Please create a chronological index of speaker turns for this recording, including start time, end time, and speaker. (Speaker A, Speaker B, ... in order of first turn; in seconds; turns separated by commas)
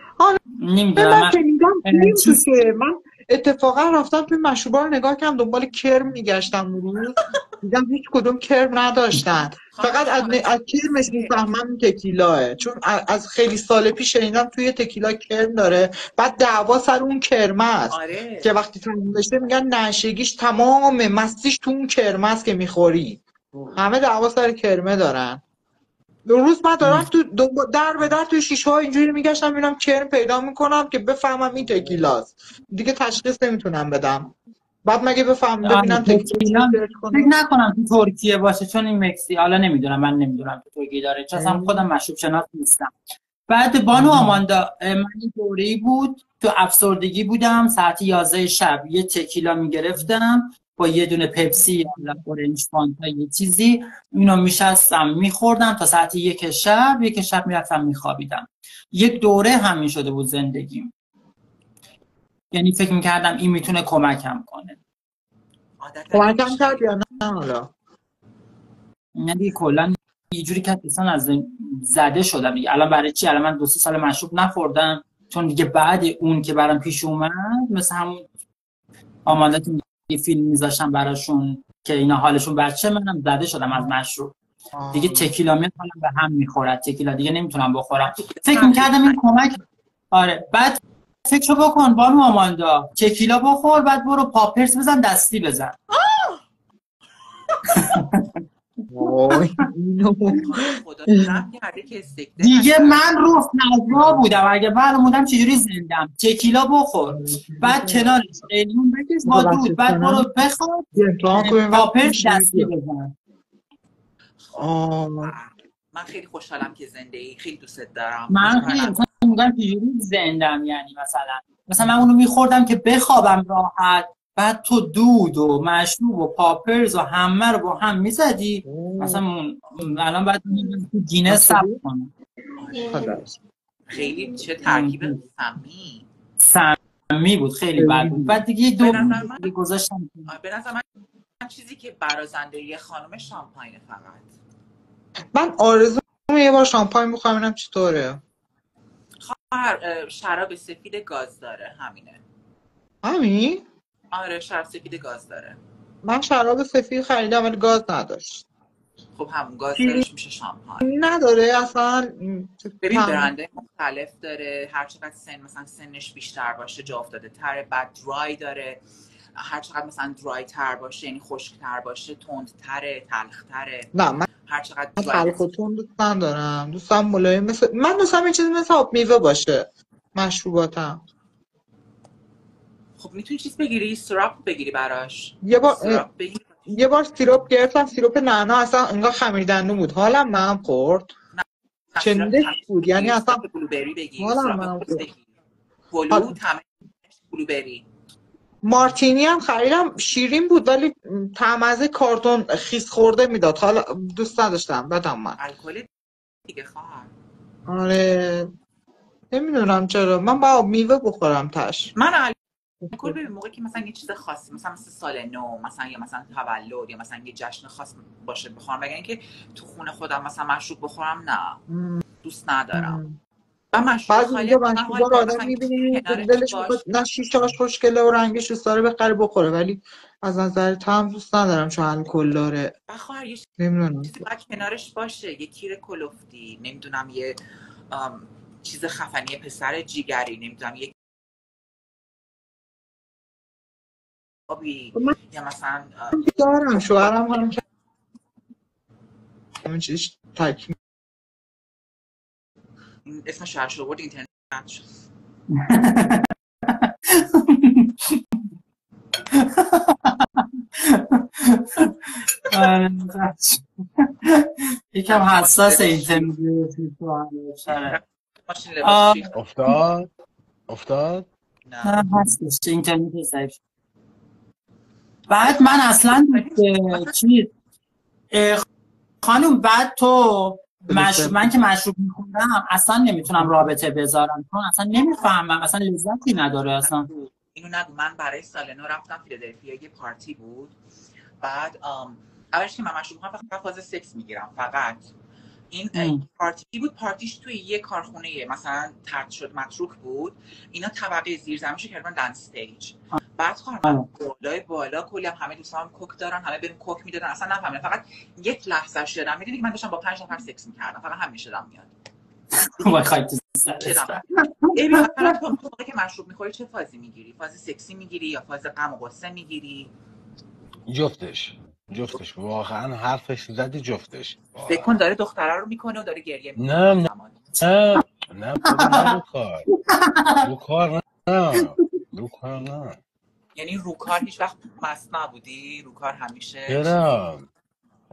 Speaker A: 0.6-2.4, Speaker B: 0.9-25.4, Speaker C: 9.7-11.3, Speaker C: 17.9-18.5, Speaker B: 26.3-37.3, Speaker A: 26.8-27.1, Speaker A: 35.6-42.9, Speaker B: 41.3-41.9, Speaker A: 43.5-60.9, Speaker B: 43.9-44.4, Speaker A: 62.5-64.8, Speaker C: 65.8-66.9, Speaker B: 66.1-67.7, Speaker A: 69.1-78.2, Speaker A: 79.2-84.3, Speaker B: 84.7-85.3, Speaker A: 84.9-89.6, Speaker C: 88.1-89.2, Speaker A: 90.1-95.8, Speaker C: 95.9-96.4, Speaker A: 97.8-98.2, Speaker B: 98.9-101.3, Speaker C: 100.3-103.1, Speaker A: 102.4-113.1, Speaker B: 103.9-104.2, Speaker B: 107.1-108.2, Speaker B: 109.2-110.3, Speaker B: 110.9-112.7, Speaker C: 114.4-119.0, Speaker B: 114.5-115.3, Speaker A: 118.3-132.1, Speaker B: 128.6-129.2, Speaker B: 131.3-131.8, Speaker C: 132.6-133.1, Speaker B: 132.9-133.4, Speaker C: 133.9-136.1, Speaker A: 134.6-135.2, Speaker A: 136.4-140.3, Speaker B: 137.8-138.4, Speaker C: 138.8-139.5, Speaker C: 140.3-140.8, Speaker C: 141.4-144.3, Speaker B: 145.3-148.2, Speaker C: 149.2-152.2, Speaker B: 153.0-153.6, Speaker C: 154.1-155.6, Speaker B: 156.0-158.4, Speaker C: 159.2-160.8, Speaker B: 159.8-160.0, Speaker B: 160.8-163.3, Speaker C: 162.8-168.8, Speaker C: 169.3-173.9, Speaker B: 173.9-174.3, Speaker C: 174.4-175.4, Speaker B: 175.0-181.0, Speaker C: 183.0-186.7, Speaker B: 185.4-186.0, Speaker B: 186.7-191.1, Speaker C: 191.3-195.2, Speaker B: 192.0-193.4, Speaker B: 194.2-195.0, Speaker C: 195.9-197.8, Speaker B: 196.1-196.3, Speaker B: 198.6-205.4, Speaker C: 205.4-205.9, Speaker C: 206.4-207.1, Speaker B: 207.7-208.5, Speaker B: 209.3-211.9, Speaker C: 211.9-212.3, Speaker B: 212.8-213.1, Speaker C: 212.9-221.6, Speaker B: 221.7-222.0, Speaker C: 222.2-223.0, Speaker B: 222.7-223.2, Speaker C: 223.7-226.8, Speaker B: 224.1-232.7, Speaker C: 232.9-237.4, Speaker B: 233.6-234.1, Speaker C: 237.9-240.9, Speaker C: 244.5-247.6, Speaker B: 246.1-247.6, Speaker B: 249.6-250.7, Speaker C: 253.1-254.8, Speaker A: 255.5-258.2, Speaker A: 259.3-262.0, Speaker A: 262.5-268.0, Speaker C: 265.1-266.3, Speaker C: 267.7-269.3, Speaker A: 268.8-269.8, Speaker D: 269.3-270.1, Speaker D: 270.7-271.3, Speaker C: 271.6-272.2, Speaker A: 271.8-273.6, Speaker A: 275.3-277.5, Speaker C: 275.4-277.1, Speaker A: 278.3-278.6, Speaker A: 279.2-287.1, Speaker B: 280.9-281.5, Speaker B: 283.4-283.7, Speaker C: 286.8-290.7, Speaker C: 291.4-295.1, Speaker C: 295.7-311.9, Speaker A: 295.9-296.2, Speaker A: 312.6-315.3, Speaker C: 313.8-319.9, Speaker D: 320.9-324.9, Speaker C: 324.6-327.5, Speaker D: 326.6-327.1, Speaker D: 327.6-329.7, Speaker A: 328.6-329.2, Speaker A: 329.7-330.5, Speaker D: 330.4-333.0, Speaker A: 331.5-331.8, Speaker C: 333.6-336.9, Speaker D: 336.7-337.5